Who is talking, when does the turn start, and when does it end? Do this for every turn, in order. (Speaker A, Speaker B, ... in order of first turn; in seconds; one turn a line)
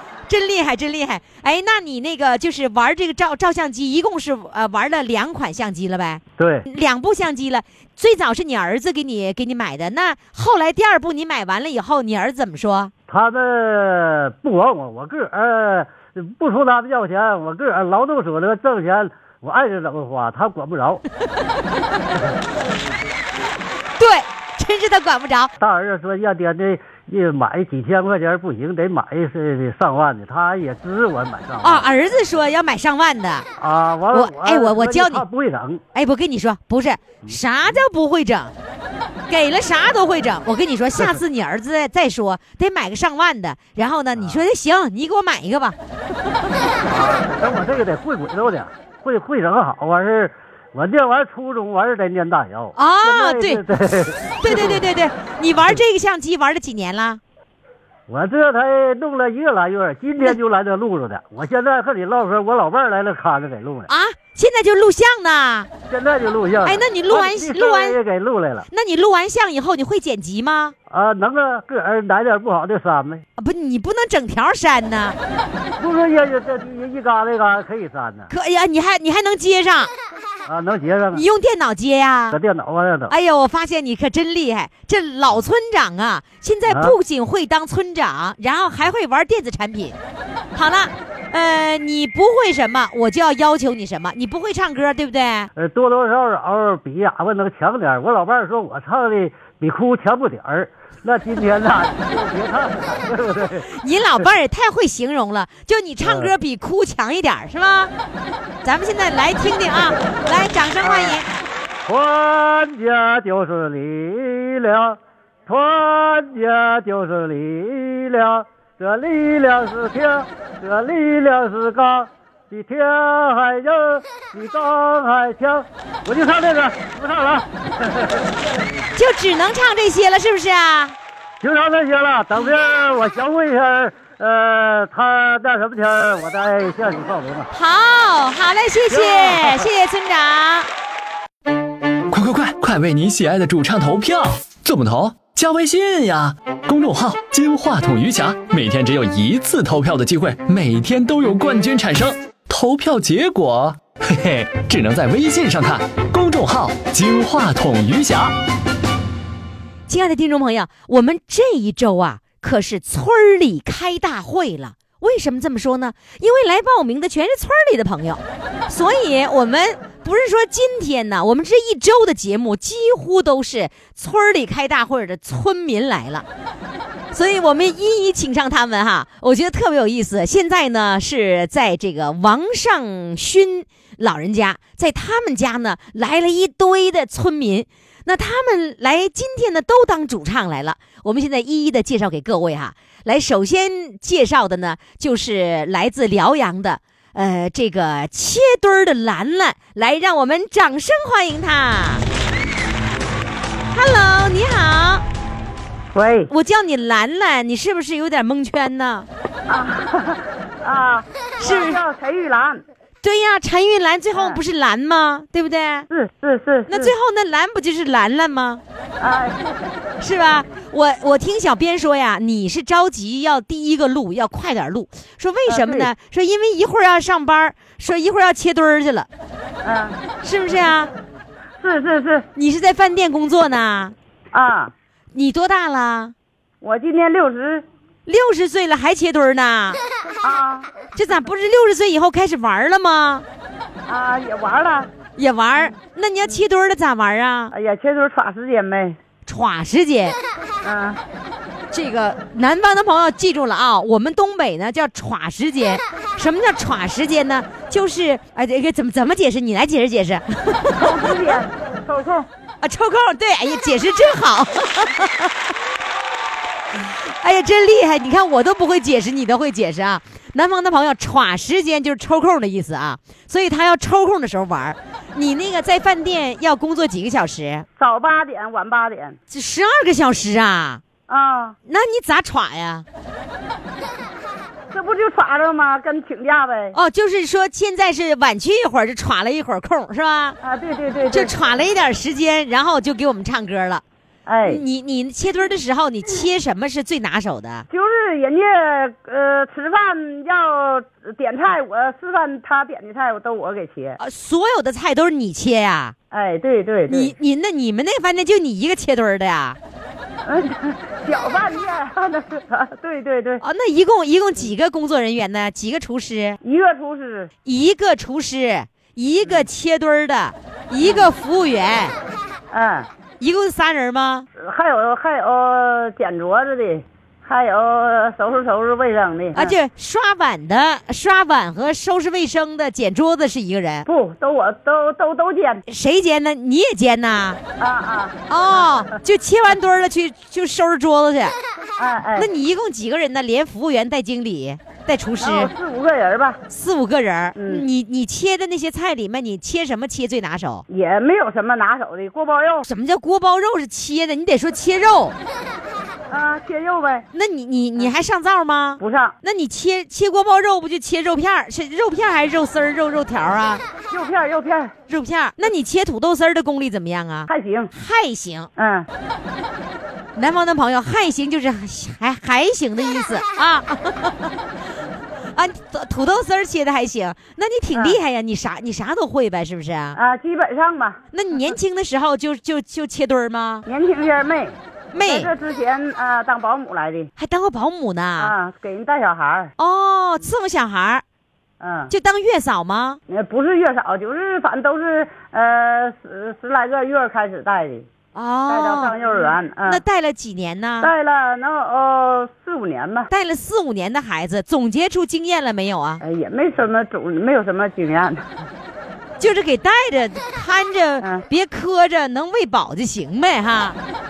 Speaker A: 0.3-12.9
Speaker B: 6.4-6.7
Speaker B: 13.1-21.0
Speaker A: 24.0-25.5
Speaker B: 25.6-31.9
Speaker A: 31.6-33.5
Speaker B: 33.6-35.8
Speaker A: 34.1-35.2
Speaker A: 35.9-38.5
Speaker A: 39.3-45.8
Speaker B: 44.2-44.4
Speaker B: 46.8-54.9
Speaker A: 52.8-53.6
Speaker A: 54.4-57.2
Speaker B: 58.1-63.9
Speaker A: 63.9-65.7
Speaker B: 65.9-68.7
Speaker A: 66.7-68.0
Speaker A: 68.7-70.7
Speaker B: 70.9-73.2
Speaker A: 73.4-75.2
Speaker B: 75.8-78.3
Speaker A: 78.3-79.9
Speaker B: 80.5-81.2
Speaker A: 81.1-82.4
Speaker B: 82.3-83.1
Speaker A: 83.1-90.0
Speaker B: 86.7-87.0
Speaker A: 90.5-95.5
Speaker B: 95.6-104.3
Speaker A: 103.7-107.9
Speaker B: 106.0-106.3
Speaker A: 108.6-111.3
Speaker B: 110.8-111.2
Speaker B: 111.8-128.3
Speaker A: 128.9-130.9
Speaker B: 131.4-137.5
Speaker A: 137.5-140.7
Speaker B: 138.9-139.7
Speaker C: 142.1-158.3
Speaker A: 159.9-176.2
Speaker A: 177.1-202.0
Speaker A: 203.7-205.1
Speaker D: 205.9-206.3
Speaker A: 206.3-209.1
Speaker D: 209.5-212.6
Speaker A: 211.4-211.8
Speaker A: 213.0-215.9
Speaker D: 214.1-214.4
Speaker D: 215.9-216.9
Speaker A: 216.7-218.6
Speaker D: 219.0-219.7
Speaker A: 220.0-229.1
Speaker D: 225.5-225.9
Speaker D: 229.6-230.0
Speaker A: 230.2-230.9
Speaker D: 231.6-232.3
Speaker A: 232.3-233.9
Speaker D: 234.3-234.7
Speaker A: 235.1-236.1
Speaker D: 236.6-237.7
Speaker A: 238.1-239.8
Speaker D: 240.2-240.7
Speaker A: 240.9-243.2
Speaker D: 243.9-244.9
Speaker A: 245.2-247.5
Speaker D: 247.5-249.0
Speaker A: 249.3-250.2
Speaker D: 250.6-251.0
Speaker A: 251.7-261.2
Speaker D: 260.8-262.3
Speaker A: 262.6-265.3
Speaker A: 266.8-277.7
Speaker D: 277.8-279.2
Speaker A: 279.3-280.8
Speaker D: 281.1-281.6
Speaker A: 281.7-282.9
Speaker D: 284.7-286.8
Speaker A: 286.7-290.4
Speaker D: 290.4-291.3
Speaker A: 291.1-293.8
Speaker D: 294.3-294.6
Speaker A: 294.4-297.7
Speaker D: 297.7-304.0
Speaker A: 304.0-305.9
Speaker D: 306.1-307.1
Speaker A: 306.9-309.6
Speaker D: 310.2-313.4
Speaker A: 313.4-316.4
Speaker D: 316.4-317.3
Speaker A: 317.4-321.9
Speaker D: 320.8-321.1
Speaker D: 322.5-322.9
Speaker A: 323.2-324.3
Speaker D: 324.4-329.6
Speaker A: 329.4-333.9
Speaker D: 333.9-335.6
Speaker A: 335.7-337.4
Speaker D: 337.6-338.2
Speaker A: 338.3-341.4
Speaker D: 341.8-342.3
Speaker A: 342.2-345.5
Speaker D: 345.2-346.4
Speaker A: 346.5-350.6
Speaker D: 347.4-347.7
Speaker D: 350.7-352.6
Speaker A: 352.6-355.1
Speaker D: 356.1-357.1
Speaker A: 357.1-363.6
Speaker D: 358.8-359.2
Speaker D: 363.9-364.7
Speaker A: 364.9-368.5
Speaker D: 367.3-367.7
Speaker D: 368.6-368.9
Speaker A: 370.1-374.3
Speaker A: 375.3-380.0
Speaker D: 377.7-378.0
Speaker D: 380.0-381.0
Speaker A: 381.1-383.7
Speaker D: 383.7-387.1
Speaker A: 384.9-385.3
Speaker A: 387.2-388.3
Speaker D: 388.2-389.5
Speaker A: 389.6-391.0
Speaker D: 391.6-391.9
Speaker A: 391.9-393.0
Speaker D: 393.1-397.9
Speaker A: 398.1-398.9
Speaker D: 398.5-399.8
Speaker A: 399.6-400.9
Speaker D: 400.8-403.1
Speaker A: 403.1-406.0
Speaker D: 406.0-408.3
Speaker A: 409.2-413.8